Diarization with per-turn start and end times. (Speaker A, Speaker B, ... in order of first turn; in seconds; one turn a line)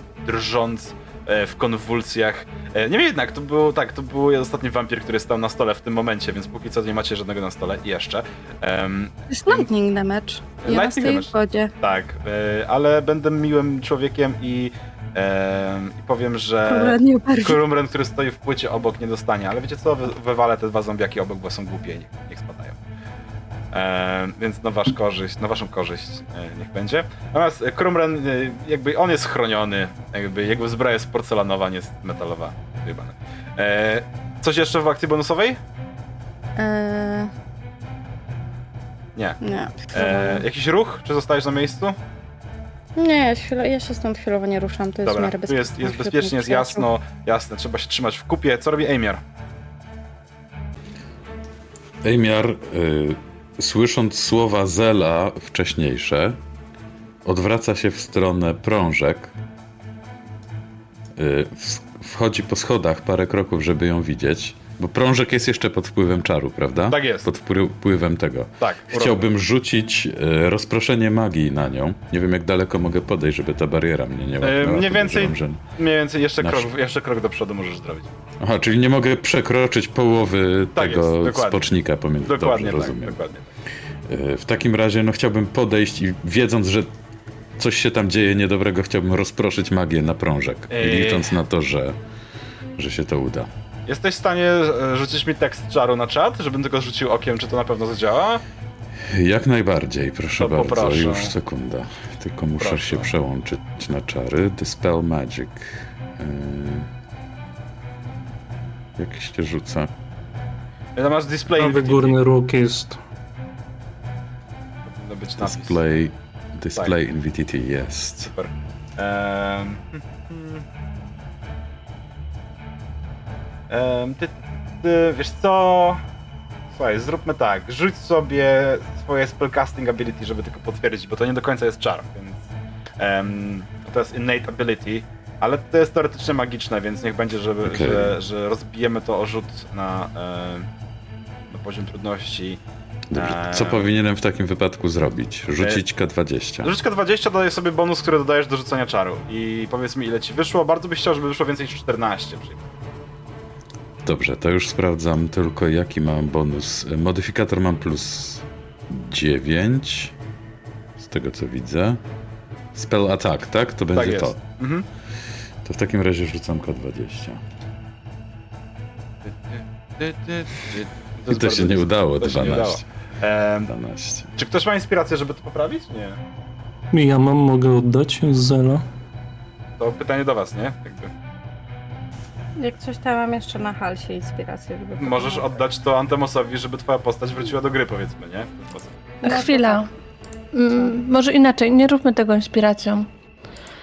Speaker A: 0.2-9.7
Speaker B: 9.3-11.7
Speaker A: 10.6-22.8
Speaker B: 16.7-17.6
Speaker A: 23.7-35.6
Speaker B: 36.6-37.3
Speaker B: 39.4-40.5
Speaker A: 39.9-42.0
Speaker B: 43.0-46.9
Speaker A: 45.0-49.2
Speaker C: 52.0-56.4
Speaker C: 57.2-59.3
Speaker C: 61.2-75.6
Speaker A: 66.9-67.3
Speaker A: 68.6-69.3
Speaker A: 74.4-78.1
Speaker C: 76.4-76.7
Speaker C: 78.4-83.2
Speaker A: 80.7-81.7
Speaker A: 82.2-83.5
Speaker C: 84.1-86.9
Speaker C: 87.6-92.0
Speaker A: 90.7-91.4
Speaker C: 92.8-93.5
Speaker A: 93.9-98.4
Speaker C: 99.1-106.9
Speaker A: 100.4-101.3
Speaker A: 102.6-103.1
Speaker C: 109.0-109.9
Speaker A: 111.0-112.2
Speaker D: 111.6-113.0
Speaker A: 114.9-115.8
Speaker C: 115.4-118.3
Speaker A: 118.2-120.6
Speaker A: 123.7-126.0
Speaker A: 126.7-132.4
Speaker A: 133.0-140.7
Speaker C: 137.6-138.2
Speaker A: 141.5-142.6
Speaker C: 143.1-146.7
Speaker A: 143.1-143.9
Speaker A: 146.6-152.6
Speaker C: 154.1-160.1
Speaker C: 161.0-162.0
Speaker C: 162.7-164.4
Speaker A: 163.9-164.9
Speaker C: 165.6-167.4
Speaker A: 169.2-173.7
Speaker C: 171.3-172.8
Speaker C: 173.7-174.3
Speaker A: 174.4-176.2
Speaker D: 176.9-178.8
Speaker A: 179.8-181.1
Speaker B: 182.6-185.6
Speaker A: 185.0-188.9
Speaker B: 189.2-189.9
Speaker E: 189.2-189.9
Speaker E: 190.5-193.1
Speaker B: 190.7-191.0